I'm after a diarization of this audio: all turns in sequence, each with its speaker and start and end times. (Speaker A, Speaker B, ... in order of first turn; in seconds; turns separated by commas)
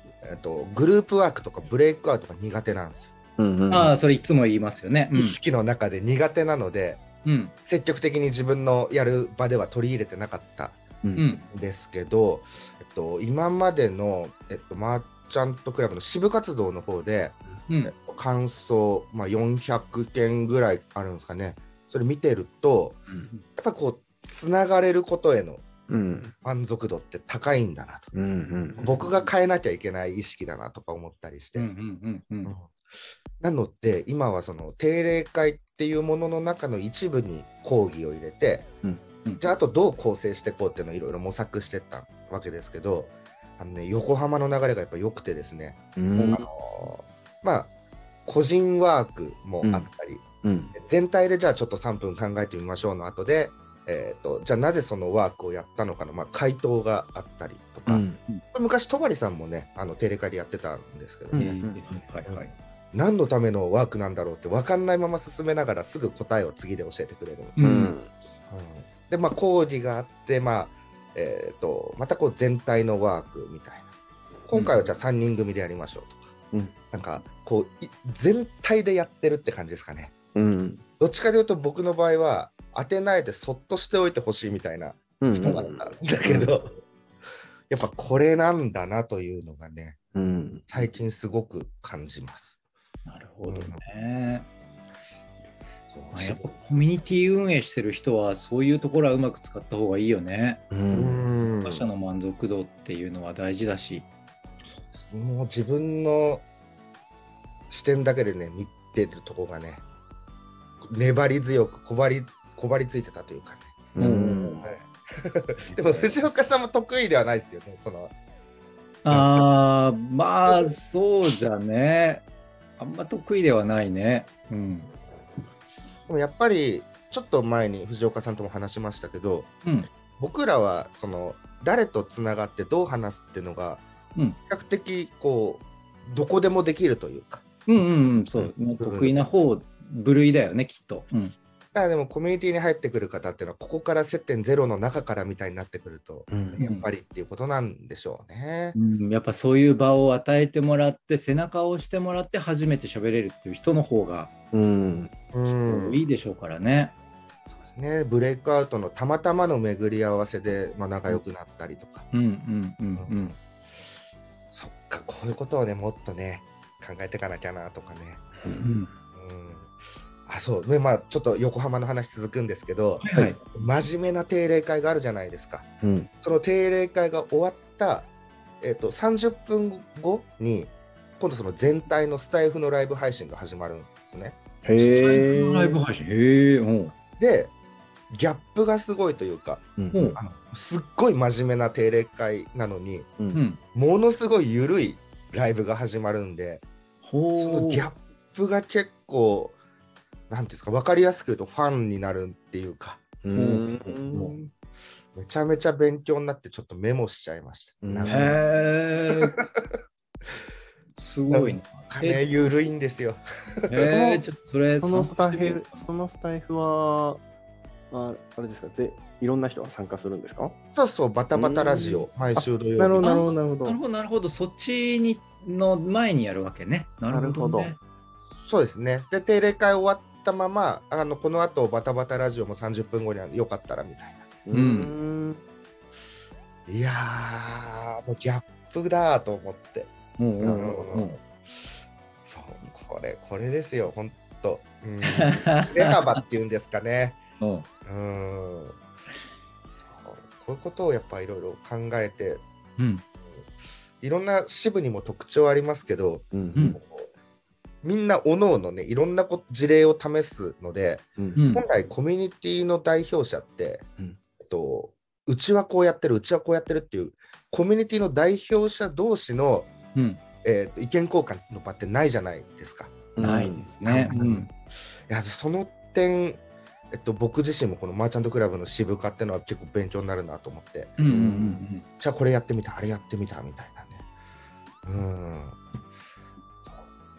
Speaker A: 0.2-3.1, Speaker B: 3.4-3.9, Speaker C: 3.7-5.4, Speaker A: 5.1-7.0, Speaker C: 7.2-7.5, Speaker A: 7.6-10.8, Speaker C: 11.2-11.5, Speaker A: 11.5-23.0, Speaker A: 23.6-25.7, Speaker B: 25.9-26.3, Speaker A: 26.4-28.1, Speaker B: 28.1-28.8, Speaker C: 28.8-29.3, Speaker A: 28.8-31.7, Speaker C: 31.6-32.5, Speaker A: 32.5-32.7, Speaker A: 33.4-38.7, Speaker A: 39.4-47.7, Speaker B: 46.0-46.4, Speaker C: 46.1-46.4, Speaker A: 48.2-61.5, Speaker B: 49.6-49.9, Speaker B: 50.4-50.7, Speaker B: 57.9-58.2, Speaker B: 61.3-61.8, Speaker C: 61.4-62.5, Speaker A: 62.9-67.6, Speaker C: 67.6-68.0, Speaker B: 67.6-68.1, Speaker A: 68.5-73.9, Speaker A: 74.5-76.3, Speaker C: 74.5-74.8, Speaker A: 76.9-80.1, Speaker B: 80.3-80.8, Speaker A: 81.0-86.8, Speaker B: 85.2-86.5, Speaker A: 87.7-90.0, Speaker B: 90.1-90.7, Speaker A: 90.7-92.5, Speaker C: 93.0-94.5, Speaker A: 93.5-93.8, Speaker A: 95.9-96.5, Speaker C: 96.1-100.6, Speaker B: 100.7-101.2, Speaker A: 100.9-101.9, Speaker C: 101.6-104.0, Speaker A: 104.8-106.4, Speaker A: 107.7-109.8, Speaker A: 110.8-113.8, Speaker B: 114.0-114.7, Speaker C: 114.0-114.6, Speaker A: 114.6-118.1, Speaker C: 119.0-122.2, Speaker A: 119.1-119.5, Speaker A: 120.5-120.7, Speaker C: 122.8-124.9, Speaker A: 126.1-129.5, Speaker A: 130.2-133.8, Speaker A: 134.5-137.4, Speaker C: 137.7-141.3, Speaker A: 138.4-139.2, Speaker A: 141.7-148.8, Speaker B: 146.3-146.6, Speaker C: 146.6-146.9, Speaker C: 148.8-154.3, Speaker B: 154.5-155.1, Speaker A: 155.3-156.0, Speaker C: 155.7-156.9, Speaker A: 157.7-162.1, Speaker C: 162.1-163.3, Speaker A: 163.0-163.4, Speaker A: 164.5-168.2, Speaker C: 168.5-168.9, Speaker A: 169.1-169.7, Speaker A: 170.2-175.7, Speaker C: 173.0-173.4, Speaker B: 175.8-176.1, Speaker A: 176.2-178.1, Speaker A: 178.6-184.4, Speaker B: 184.6-185.8, Speaker C: 184.8-186.9, Speaker A: 187.2-187.5, Speaker A: 188.1-189.6, Speaker B: 189.8-190.2, Speaker C: 189.9-190.2, Speaker A: 190.2-193.1, Speaker C: 193.3-193.6, Speaker A: 193.7-196.6, Speaker C: 197.0-197.9, Speaker A: 197.3-199.6, Speaker A: 200.3-203.0, Speaker B: 203.2-204.5, Speaker C: 203.3-204.4, Speaker A: 205.1-208.4, Speaker B: 207.8-208.3, Speaker C: 208.1-209.4, Speaker C: 210.9-212.2, Speaker A: 211.3-213.7, Speaker C: 213.7-215.9, Speaker B: 213.8-214.2, Speaker B: 214.8-217.2, Speaker B: 217.9-220.6, Speaker A: 220.8-223.1, Speaker B: 221.3-223.8, Speaker C: 223.0-227.8, Speaker B: 227.1-227.7, Speaker A: 228.4-234.3, Speaker B: 234.4-235.4, Speaker C: 234.5-235.0, Speaker A: 236.7-241.2, Speaker C: 240.2-241.2, Speaker B: 240.4-240.8, Speaker A: 242.2-247.2, Speaker C: 245.0-246.2, Speaker C: 247.4-247.7, Speaker A: 247.8-248.8, Speaker A: 249.8-252.4, Speaker C: 252.8-253.0, Speaker A: 254.0-257.1, Speaker B: 256.3-256.7, Speaker A: 257.8-263.8, Speaker C: 261.4-261.6, Speaker A: 264.4-269.7, Speaker C: 269.9-270.2, Speaker A: 270.4-273.0, Speaker B: 273.2-274.2, Speaker C: 273.2-274.5, Speaker A: 273.9-274.5, Speaker A: 275.1-276.4, Speaker A: 276.9-281.0, Speaker C: 281.0-281.8, Speaker B: 281.1-281.6, Speaker A: 282.0-284.0, Speaker A: 284.8-285.6